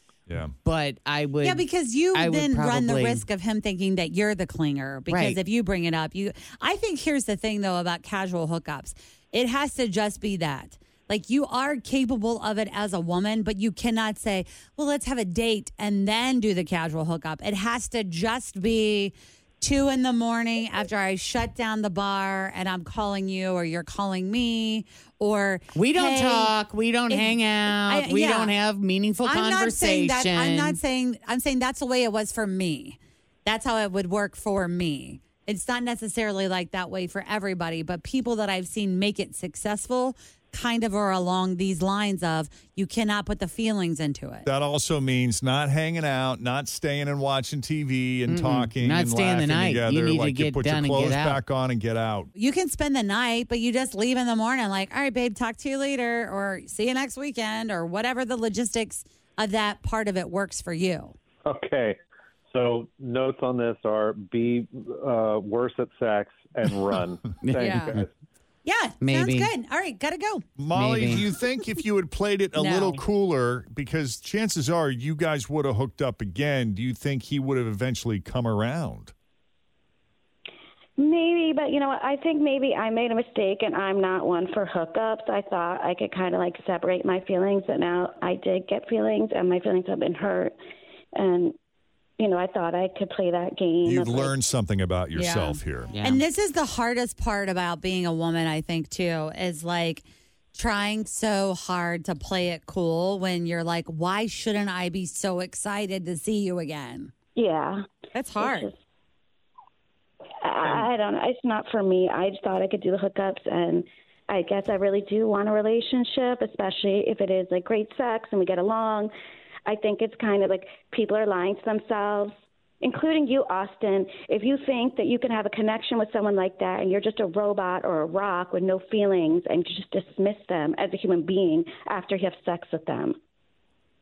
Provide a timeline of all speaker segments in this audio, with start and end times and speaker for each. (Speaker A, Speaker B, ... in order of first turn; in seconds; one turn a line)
Speaker A: 0.3-0.5
Speaker B: 0.6-3.2
Speaker C: 1.4-26.5
Speaker B: 5.1-5.4
Speaker B: 25.7-30.8
Speaker C: 27.1-28.5
Speaker C: 29.2-44.5
Speaker A: 44.5-52.3
Speaker B: 48.3-51.4
Speaker C: 52.4-61.1
Speaker D: 61.4-62.0
Speaker D: 62.5-68.1
Speaker B: 67.4-68.0
Speaker C: 67.5-68.0
Speaker C: 68.6-70.4
Speaker B: 69.0-69.5
Speaker A: 70.6-79.1
Speaker B: 70.7-71.2
Speaker C: 72.5-73.0
Speaker E: 81.0-90.5
Speaker E: 91.2-91.5
Speaker E: 92.2-94.3
Speaker A: 93.8-95.9
Speaker C: 95.1-107.1
Speaker B: 96.0-96.2
Speaker E: 107.3-108.7
Speaker C: 108.1-108.7
Speaker E: 110.4-119.1
Speaker D: 110.6-110.9
Speaker E: 119.7-133.2